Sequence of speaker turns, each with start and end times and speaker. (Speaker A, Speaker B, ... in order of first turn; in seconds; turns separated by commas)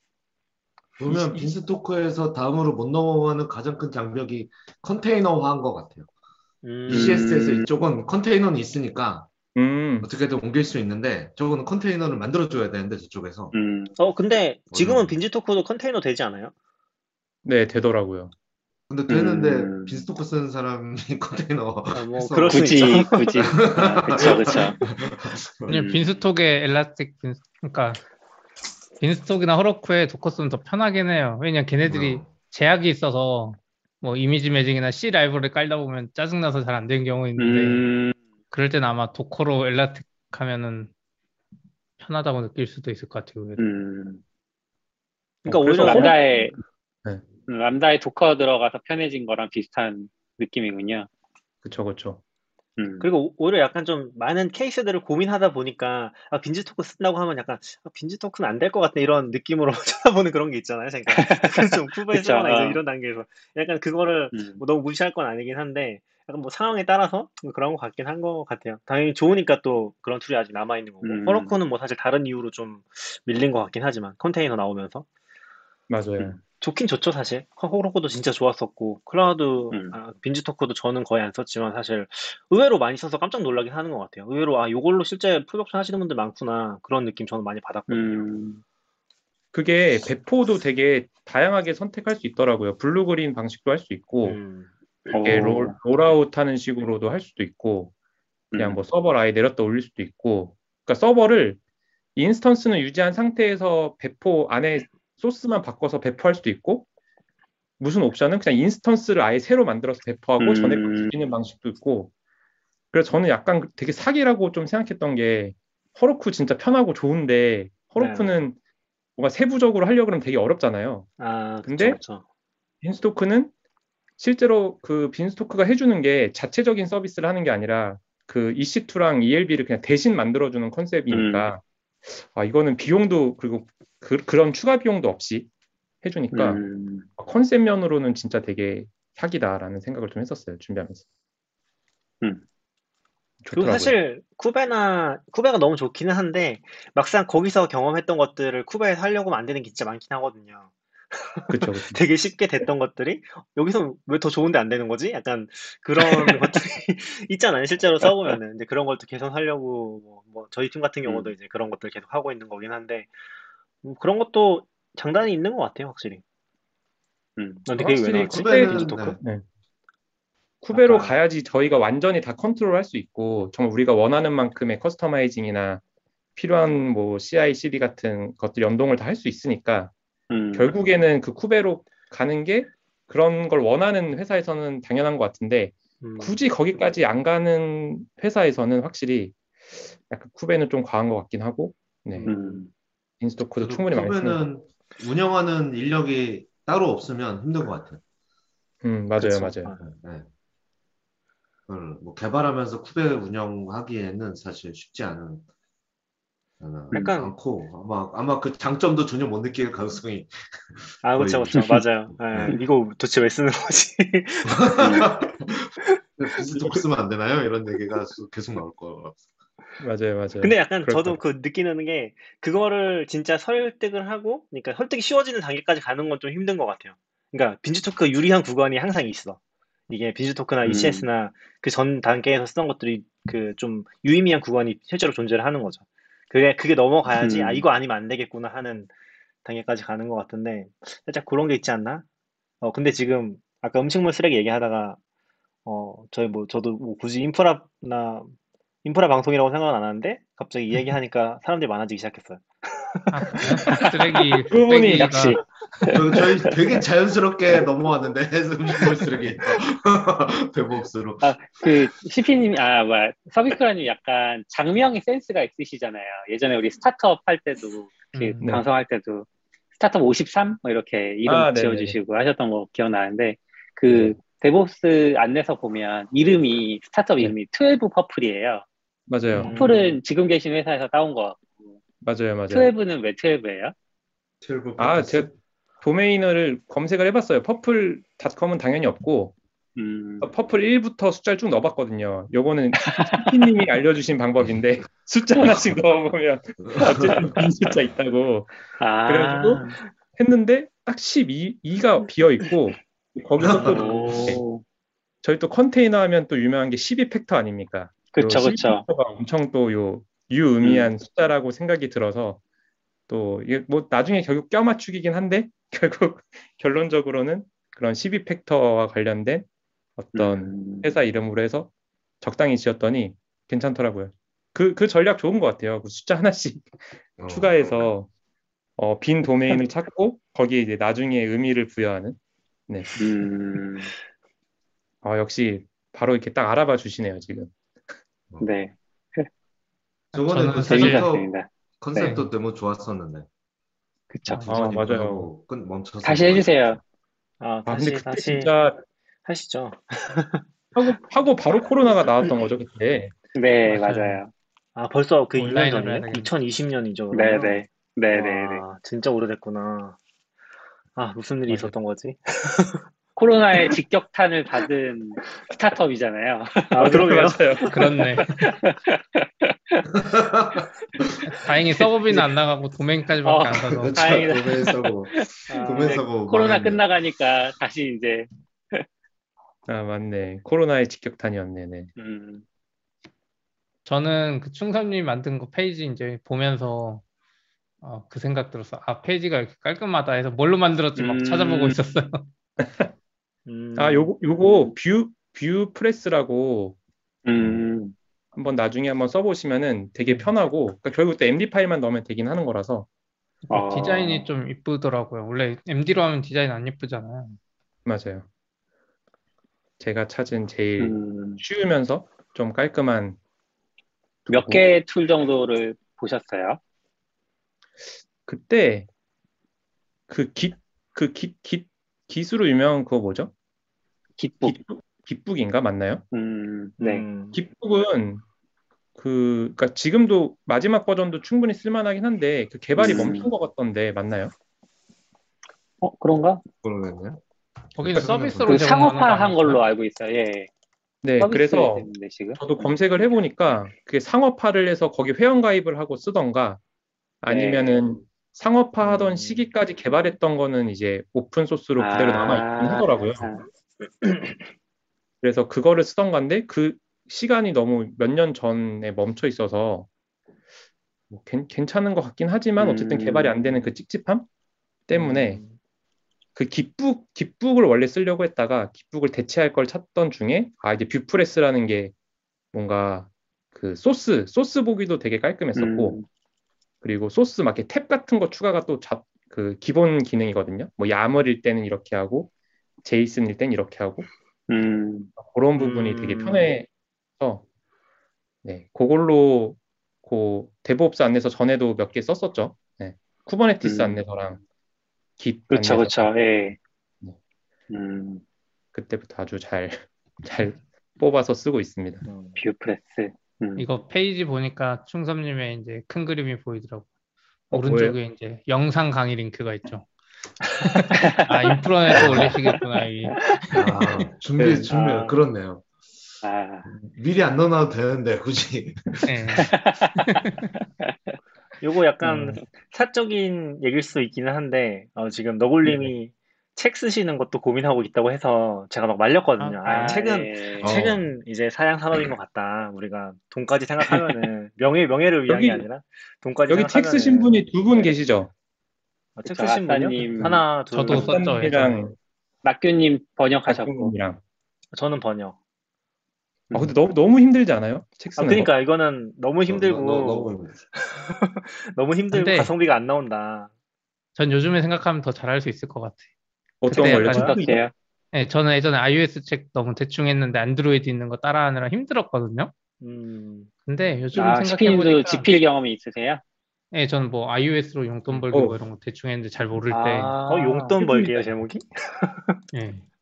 Speaker A: 1.0-6.1, Speaker B: 1.1-1.5, Speaker C: 6.6-7.3, Speaker D: 6.9-7.7, Speaker A: 6.9-9.3, Speaker B: 9.5-10.1, Speaker A: 10.0-13.5, Speaker D: 13.5-13.9, Speaker C: 14.0-16.5, Speaker A: 14.7-15.2, Speaker B: 17.4-18.3, Speaker A: 18.9-22.6, Speaker D: 19.1-20.1, Speaker C: 21.9-24.5, Speaker D: 22.5-24.8, Speaker A: 23.4-25.8, Speaker D: 25.7-26.2, Speaker E: 25.7-28.0, Speaker E: 29.0-37.8, Speaker A: 31.8-32.3, Speaker D: 37.4-38.1, Speaker E: 38.5-40.9, Speaker E: 42.0-43.7, Speaker D: 43.6-44.2, Speaker B: 45.4-46.5, Speaker C: 45.5-46.2, Speaker D: 45.8-46.6, Speaker D: 47.5-51.1, Speaker B: 51.6-52.2, Speaker D: 52.8-53.1, Speaker C: 53.0-75.0, Speaker D: 61.1-62.8, Speaker D: 64.3-64.6, Speaker D: 71.0-71.5, Speaker B: 75.9-76.4, Speaker C: 76.6-88.1, Speaker D: 79.7-80.0, Speaker D: 87.9-88.6, Speaker B: 89.5-94.4, Speaker C: 94.2-94.7, Speaker D: 95.1-95.7, Speaker B: 95.2-97.9, Speaker D: 98.5-98.8, Speaker B: 98.5-101.6, Speaker B: 102.1-106.9, Speaker B: 107.8-112.1, Speaker D: 110.4-111.1, Speaker B: 112.9-118.5, Speaker C: 118.0-118.3, Speaker B: 119.2-121.1, Speaker C: 121.2-122.2, Speaker B: 121.7-122.0, Speaker B: 122.8-123.5, Speaker B: 124.2-135.5, Speaker D: 131.1-131.5, Speaker B: 136.0-136.6, Speaker D: 136.3-137.1, Speaker B: 137.2-141.0, Speaker B: 143.4-144.0, Speaker C: 143.5-163.1, Speaker B: 151.5-152.0, Speaker D: 156.0-156.4, Speaker D: 158.0-158.4, Speaker D: 161.0-161.3, Speaker C: 163.8-166.2, Speaker D: 167.4-167.6, Speaker C: 167.6-169.2, Speaker B: 167.8-169.4, Speaker A: 167.8-169.2, Speaker B: 170.6-175.8, Speaker C: 170.7-171.1, Speaker B: 176.3-179.9, Speaker D: 180.3-180.7, Speaker B: 180.5-192.3, Speaker C: 186.0-186.4, Speaker C: 192.1-192.6, Speaker D: 192.2-192.7, Speaker B: 193.2-194.4, Speaker A: 193.6-198.0, Speaker B: 198.8-199.7, Speaker C: 199.2-199.8, Speaker A: 199.8-200.3, Speaker A: 201.7-205.4, Speaker A: 206.6-212.6, Speaker C: 206.9-207.3, Speaker C: 211.0-215.2, Speaker D: 211.6-211.8, Speaker A: 214.4-219.2, Speaker D: 214.8-215.1, Speaker B: 216.6-216.8, Speaker B: 219.8-221.2, Speaker C: 220.4-238.9, Speaker D: 230.6-231.1, Speaker D: 237.1-237.6, Speaker C: 239.4-242.1, Speaker C: 242.6-245.0, Speaker C: 245.6-253.9, Speaker E: 253.1-255.4, Speaker B: 254.5-255.3, Speaker D: 254.9-256.6, Speaker A: 255.9-261.8, Speaker D: 261.2-278.6, Speaker E: 268.1-268.5, Speaker B: 271.2-271.9, Speaker B: 279.1-279.6, Speaker C: 279.3-280.0, Speaker D: 279.3-281.7, Speaker B: 282.0-282.7, Speaker D: 282.5-283.7, Speaker A: 284.4-285.3, Speaker B: 284.8-289.3, Speaker D: 289.8-290.3, Speaker B: 290.2-298.5, Speaker D: 292.8-293.3, Speaker A: 296.6-297.3, Speaker D: 298.8-299.8, Speaker B: 299.1-299.6, Speaker B: 300.1-304.4, Speaker A: 303.4-303.8, Speaker D: 303.5-304.6, Speaker C: 303.8-304.2, Speaker B: 305.2-312.4, Speaker D: 308.1-308.9, Speaker D: 310.6-310.9, Speaker B: 313.1-319.4, Speaker B: 320.0-328.1, Speaker D: 320.1-320.9, Speaker A: 327.2-327.9, Speaker B: 328.8-332.2, Speaker B: 332.7-333.0, Speaker D: 333.0-333.9, Speaker B: 335.0-337.5, Speaker D: 338.4-339.3, Speaker A: 340.1-341.3, Speaker E: 340.1-341.1, Speaker D: 340.6-342.1, Speaker A: 341.8-343.3, Speaker E: 342.0-342.3, Speaker D: 344.1-344.5, Speaker A: 344.3-346.8, Speaker B: 344.5-345.3, Speaker D: 346.0-346.8, Speaker C: 347.4-348.5, Speaker B: 347.6-348.8, Speaker C: 349.2-350.4, Speaker B: 350.8-353.1, Speaker D: 353.3-354.3, Speaker E: 353.7-354.2, Speaker C: 354.8-360.0, Speaker E: 355.3-356.3, Speaker D: 357.1-358.6, Speaker C: 360.9-362.8, Speaker D: 363.1-367.1, Speaker C: 366.7-367.7, Speaker B: 366.8-367.8, Speaker E: 367.7-368.4, Speaker D: 368.4-369.9, Speaker A: 370.0-371.1, Speaker E: 371.2-374.0, Speaker D: 373.2-378.8, Speaker A: 373.8-376.8, Speaker C: 375.5-376.1, Speaker B: 379.7-381.9, Speaker D: 382.0-382.4, Speaker E: 383.8-387.0, Speaker E: 387.8-392.3, Speaker D: 391.0-391.8, Speaker B: 392.6-392.9, Speaker C: 393.4-394.1, Speaker B: 393.8-396.8, Speaker D: 397.2-397.9, Speaker A: 397.4-397.6, Speaker B: 398.3-402.9, Speaker D: 403.5-404.3, Speaker E: 403.5-407.4, Speaker B: 407.8-408.3, Speaker B: 409.8-413.2, Speaker D: 410.8-411.4, Speaker B: 414.3-414.6, Speaker D: 414.3-416.6, Speaker B: 418.2-418.9, Speaker B: 420.1-423.3, Speaker D: 424.2-424.6, Speaker B: 424.4-426.0, Speaker D: 426.1-427.1, Speaker C: 426.8-427.4, Speaker B: 427.3-428.2, Speaker B: 428.9-434.3, Speaker D: 432.8-433.3, Speaker D: 435.8-436.4, Speaker A: 436.6-437.2, Speaker E: 437.8-439.6, Speaker A: 437.8-438.6, Speaker B: 437.9-438.5, Speaker D: 438.4-440.5, Speaker B: 441.0-446.6, Speaker D: 441.2-442.6, Speaker B: 447.2-453.3, Speaker D: 447.3-447.8, Speaker C: 448.8-449.5, Speaker D: 451.8-453.4, Speaker B: 455.2-459.9, Speaker B: 461.1-464.2, Speaker D: 462.6-463.3, Speaker B: 464.9-465.4, Speaker C: 464.9-465.6, Speaker B: 466.3-471.9, Speaker B: 472.5-476.0, Speaker D: 475.6-476.1, Speaker B: 476.8-482.3, Speaker B: 482.8-484.1, Speaker D: 484.5-485.1, Speaker B: 485.2-486.7, Speaker C: 485.6-486.5, Speaker B: 487.2-487.4, Speaker B: 488.4-494.4, Speaker D: 493.6-494.0, Speaker B: 495.2-496.1, Speaker D: 495.5-496.6, Speaker D: 497.7-498.2, Speaker B: 498.7-502.0, Speaker C: 502.0-502.4, Speaker D: 502.4-503.7, Speaker E: 503.6-506.9, Speaker B: 507.5-508.0, Speaker E: 507.5-509.9, Speaker E: 510.6-513.2, Speaker A: 511.9-512.3, Speaker C: 512.0-512.3, Speaker C: 513.4-513.6, Speaker A: 513.5-515.6, Speaker C: 514.7-515.2, Speaker D: 516.2-516.6, Speaker A: 516.6-519.5, Speaker E: 519.0-520.4, Speaker D: 519.4-520.2, Speaker D: 520.8-521.1, Speaker C: 521.6-537.9, Speaker E: 522.0-522.4, Speaker E: 529.4-530.0, Speaker D: 529.6-530.8, Speaker A: 530.6-531.0, Speaker B: 535.3-535.6, Speaker B: 536.5-538.3, Speaker C: 539.1-541.4, Speaker D: 539.2-540.4, Speaker E: 540.7-541.8, Speaker B: 540.9-541.9, Speaker D: 542.4-543.9, Speaker B: 543.5-544.2, Speaker C: 544.7-545.4, Speaker B: 546.5-548.5, Speaker C: 548.2-550.4, Speaker A: 549.5-550.6, Speaker C: 550.9-553.5, Speaker E: 552.1-552.5, Speaker E: 554.1-556.1, Speaker B: 556.6-557.6, Speaker E: 556.7-557.4, Speaker D: 556.8-557.7, Speaker E: 558.1-562.5, Speaker C: 562.8-563.5, Speaker E: 563.6-565.3, Speaker D: 564.1-566.2, Speaker E: 566.7-570.1, Speaker B: 568.3-568.6, Speaker D: 569.7-571.1, Speaker C: 570.2-572.4, Speaker E: 572.5-572.9